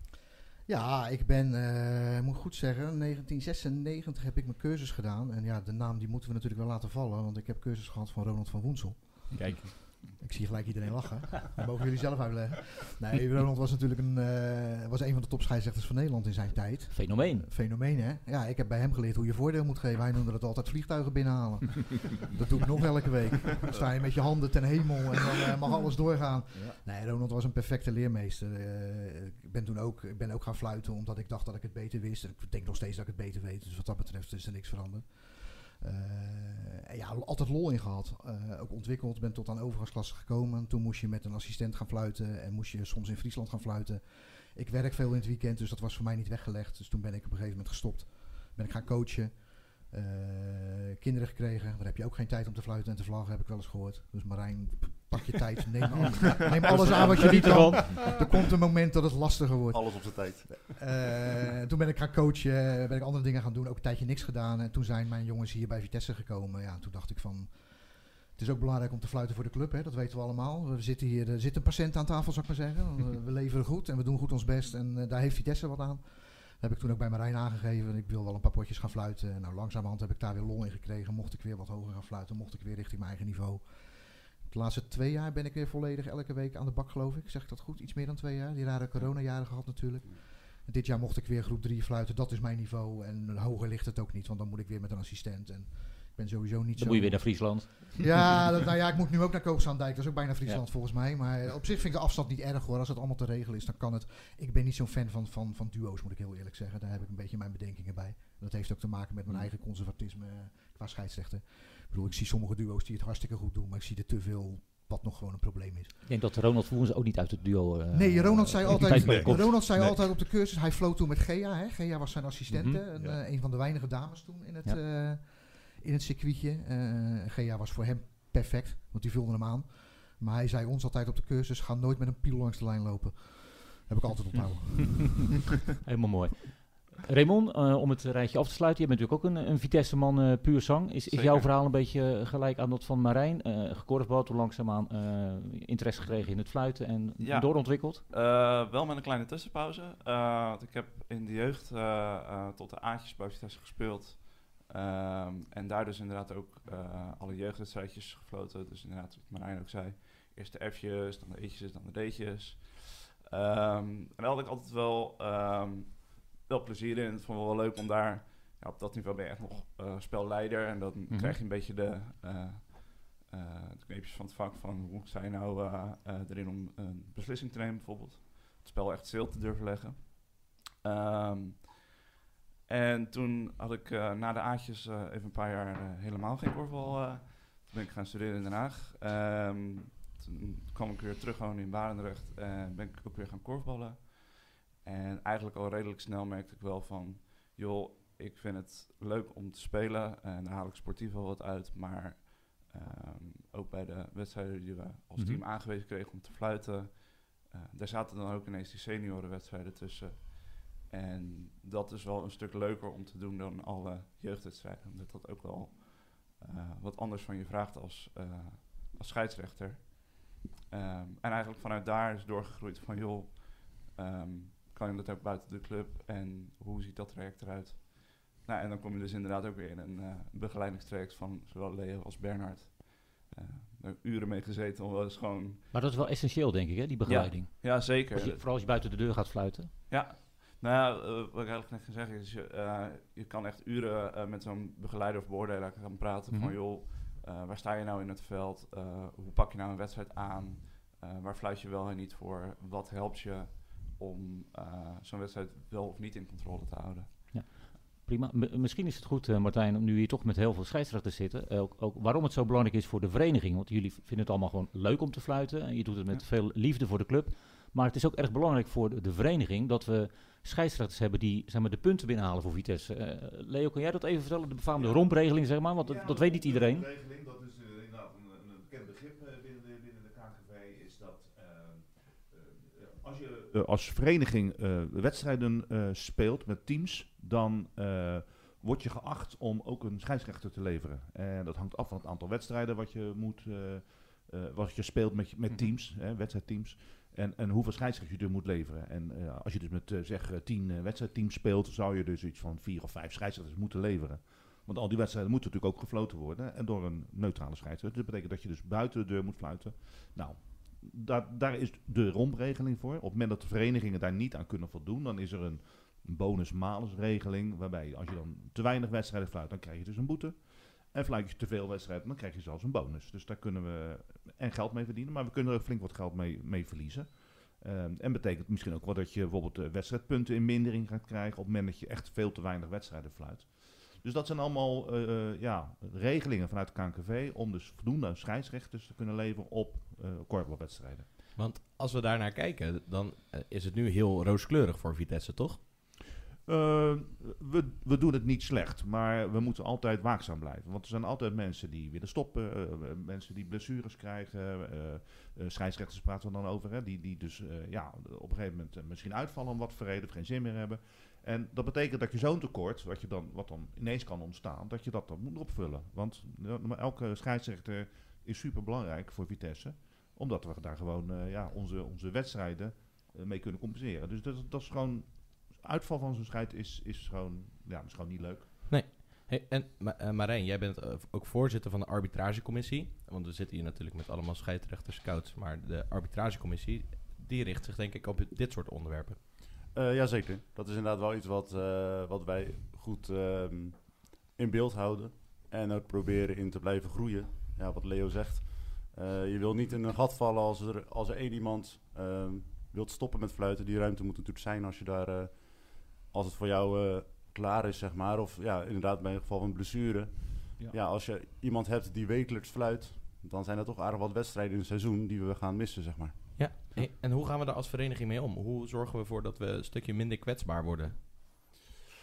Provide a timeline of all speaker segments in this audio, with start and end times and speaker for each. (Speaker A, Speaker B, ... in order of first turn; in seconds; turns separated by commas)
Speaker A: 0.7-9.6, Speaker B: 9.3-9.9, Speaker A: 10.2-116.0, Speaker C: 16.9-17.5, Speaker D: 26.5-26.8, Speaker C: 56.4-58.0, Speaker E: 59.7-60.7, Speaker C: 96.8-98.1, Speaker C: 116.0-119.9, Speaker A: 117.9-135.4, Speaker D: 118.7-120.1, Speaker C: 122.5-122.8, Speaker D: 123.0-123.2, Speaker C: 135.8-148.0, Speaker F: 141.1-141.5, Speaker F: 147.2-181.9, Speaker C: 171.1-171.4, Speaker F: 182.7-235.7, Speaker C: 205.2-205.4, Speaker C: 235.7-239.7, Speaker F: 237.1-238.4, Speaker F: 239.9-257.1, Speaker C: 246.3-246.5, Speaker C: 257.3-276.9, Speaker D: 274.7-341.1, Speaker B: 341.3-345.6, Speaker D: 346.4-378.6, Speaker B: 378.7-389.2, Speaker E: 389.7-416.3, Speaker B: 416.4-421.0